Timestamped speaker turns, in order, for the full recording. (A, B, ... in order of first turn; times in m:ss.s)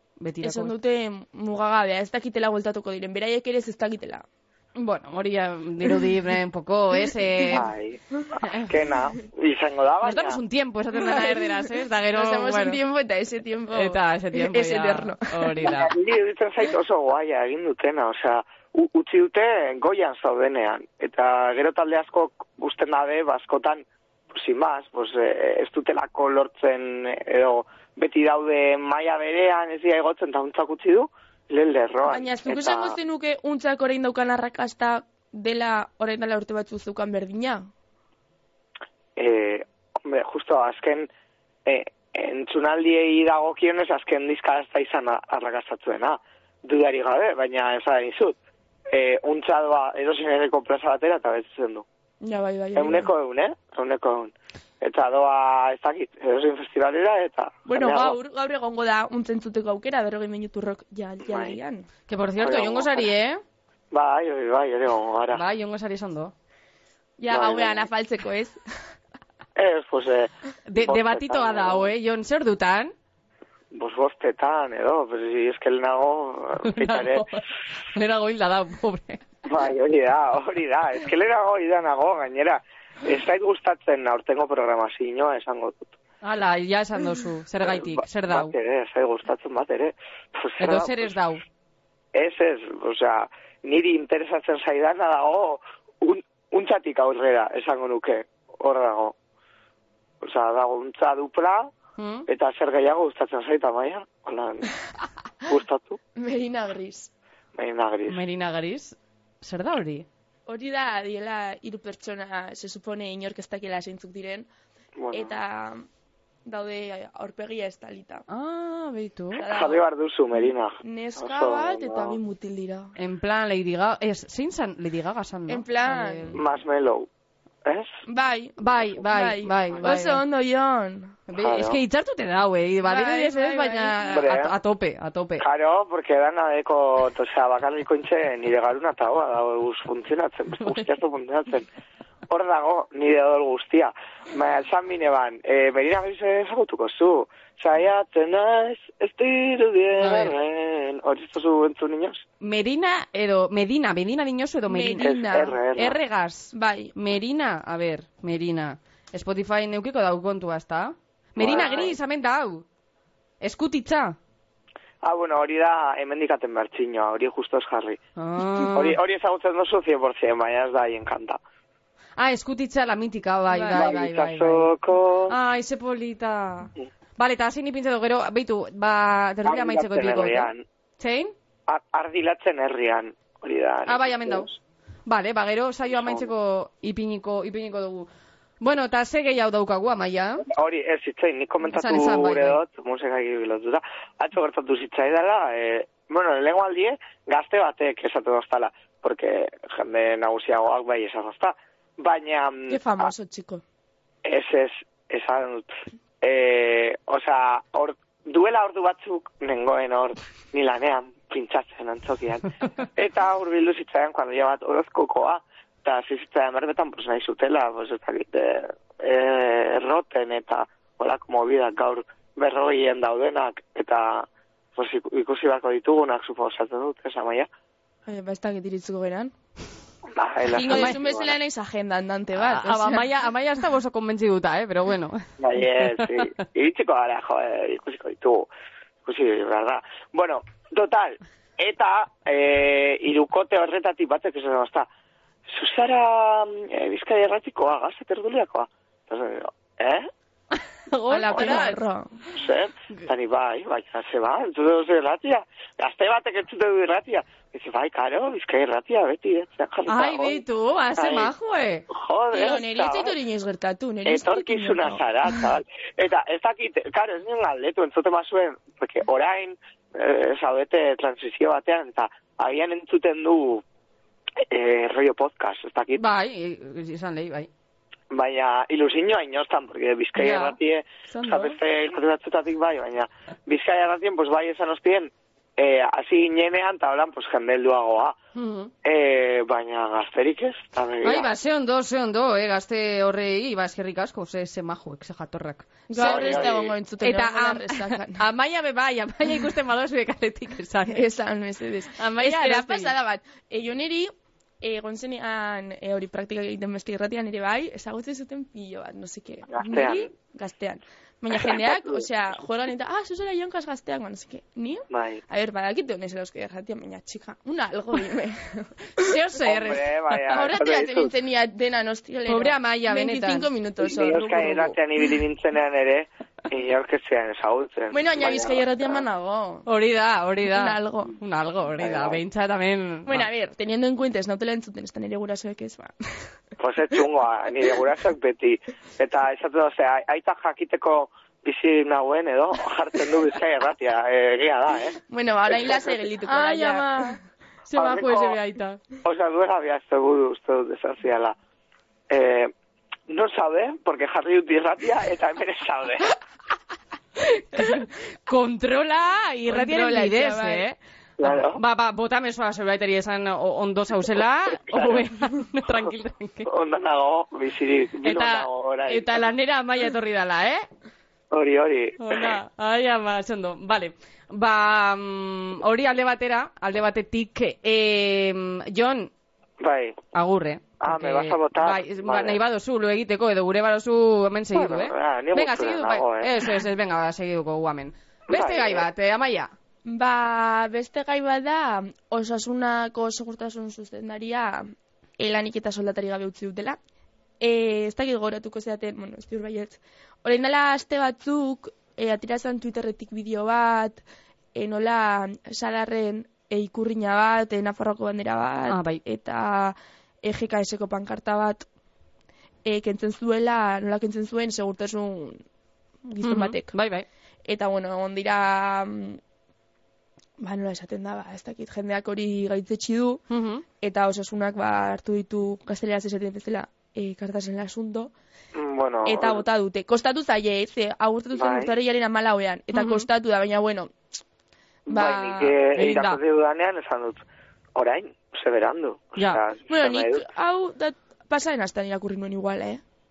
0:00.2-0:00.7 A
0:00.4-0:04.2 B
0:04.8-0:07.7 A
0:07.5-0:10.4 C
0:08.4-0:08.7 A
0:10.0-0:12.8 A
0:10.9-0:15.5 B
0:13.7-0:15.9 A
0:15.6-0:33.0 C
0:32.0-0:37.6 B
0:39.2-0:41.1 C
0:41.6-0:48.4 C
0:48.9-0:51.8 C
0:52.2-0:53.1 B
0:52.7-0:58.2 C
0:57.7-1:01.9 B
1:01.2-1:01.6 C
1:02.1-1:03.4 A
1:02.4-1:03.1 C
1:03.9-1:05.4 C
1:05.3-1:06.3 A
1:07.2-1:08.6 B
1:07.3-1:07.9 C
1:09.6-1:11.9 C
1:10.7-1:12.9 A
1:13.7-1:17.3 C
1:16.6-1:17.4 A
1:17.9-1:19.2 A
1:19.4-1:26.0 C
1:26.2-1:28.5 A
1:27.6-1:31.1 C
1:30.6-1:31.4 A
1:32.1-1:39.2 C
1:40.2-1:41.7 C
1:42.0-1:42.3 A
1:42.3-1:44.7 C
1:45.4-1:46.0 C
1:46.2-1:47.1 B
1:47.5-1:48.2 C
1:48.1-1:50.1 A
1:50.5-1:54.5 B
1:55.0-1:55.4 C
1:55.1-1:55.8 B
1:56.4-1:58.2 B
1:58.3-1:59.4 A
1:59.4-1:59.8 B
1:59.4-2:02.2 C
2:00.8-2:02.9 B
2:03.0-2:06.4 A
2:05.5-2:06.4 B
2:06.3-2:07.1 C
2:07.6-2:07.9 C
2:08.1-2:11.2 B
2:08.6-2:10.2 A
2:11.3-2:15.4 A
2:11.4-2:11.8 C
2:12.8-2:14.1 B
2:14.1-2:14.5 C
2:15.4-2:21.7 C
2:22.3-2:32.2 C
2:30.0-2:30.4 A
2:32.4-2:35.1 A
2:34.7-2:35.6 B
2:35.0-2:35.9 C
2:35.8-2:42.6 A
2:36.5-2:36.9 B
2:41.4-2:41.9 C
2:41.5-2:41.8 B
2:43.4-2:44.2 A
2:45.0-2:48.0 C
2:48.2-2:49.0 A
2:48.7-2:51.4 C
2:52.2-2:54.7 A
2:53.5-2:53.8 B
2:53.7-2:55.4 C
2:55.3-3:01.3 A
2:59.4-3:00.6 C
3:01.7-3:04.6 C
3:03.9-3:04.5 A
3:05.1-3:08.1 A
3:05.9-3:06.3 C
3:08.6-3:10.4 A
3:10.4-3:23.1 C
3:11.7-3:12.6 A
3:22.7-3:23.6 B
3:24.2-3:25.7 C
3:26.2-3:47.5 C
3:48.0-3:49.3 B
3:50.1-3:51.4 C
3:50.5-3:53.1 B
3:52.4-3:55.2 A
3:55.4-3:58.5 C
3:56.0-3:56.2 A
3:59.0-4:04.9 C
4:05.5-4:10.1 C
4:10.9-4:11.8 A
4:11.1-4:12.2 B
4:11.3-4:11.6 C
4:12.3-4:20.4 C
4:19.9-4:21.8 A
4:21.0-4:21.3 C
4:21.9-4:23.1 C
4:22.3-4:25.5 B
4:24.0-4:33.6 C
4:34.5-4:36.0 C
4:36.0-4:37.5 A
4:38.1-4:48.2 C
4:40.2-4:40.6 A
4:41.1-4:41.5 B
4:48.3-4:48.7 A
4:48.8-4:51.3 C
4:51.0-5:01.0 A
4:55.9-4:58.2 B
4:56.0-4:56.7 C
5:00.9-5:19.1 B
5:02.0-5:02.9 A
5:09.5-5:10.1 C
5:11.4-5:12.0 C
5:14.9-5:15.2 C
5:19.0-5:19.9 A
5:19.4-5:21.1 C
5:20.3-5:24.8 B
5:22.3-5:23.5 A
5:23.8-5:29.0 C
5:27.9-5:29.6 B
5:29.6-5:33.3 A
5:30.5-5:31.2 B
5:31.8-5:32.2 C
5:33.0-5:36.3 B
5:36.6-5:45.0 C
5:45.1-5:47.2 B
5:46.2-5:47.1 A
5:47.7-5:48.8 A
5:47.7-5:48.4 C
5:49.0-5:51.4 C
5:52.1-5:52.5 C
5:53.1-5:56.1 C
5:57.2-6:06.5 A
5:59.5-6:00.6 B
6:01.2-6:01.6 C
6:04.7-6:05.0 C
6:06.4-6:09.2 C
6:08.0-6:10.6 A
6:11.3-6:12.4 C
6:12.0-6:19.1 A
6:19.6-6:20.0 C
6:20.1-6:29.5 A
6:20.8-6:22.4 C
6:24.5-6:26.3 C
6:28.3-6:28.9 C
6:29.8-6:36.8 B
6:37.4-6:44.0 B
6:44.5-6:51.7 B
6:48.7-6:49.0 A
6:52.6-6:55.4 B
6:56.0-6:56.7 B
6:56.2-6:57.0 A
6:57.4-6:59.2 B
7:00.4-7:03.2 B
7:03.3-7:03.6 A
7:03.8-7:08.1 B
7:08.5-7:09.4 C
7:09.0-7:13.9 B
7:11.3-7:11.7 C
7:12.7-7:13.0 A
7:14.9-7:15.6 B
7:14.9-7:17.2 C
7:15.8-7:16.2 A
7:17.7-7:20.3 C
7:19.2-7:19.4 A
7:19.7-7:22.8 B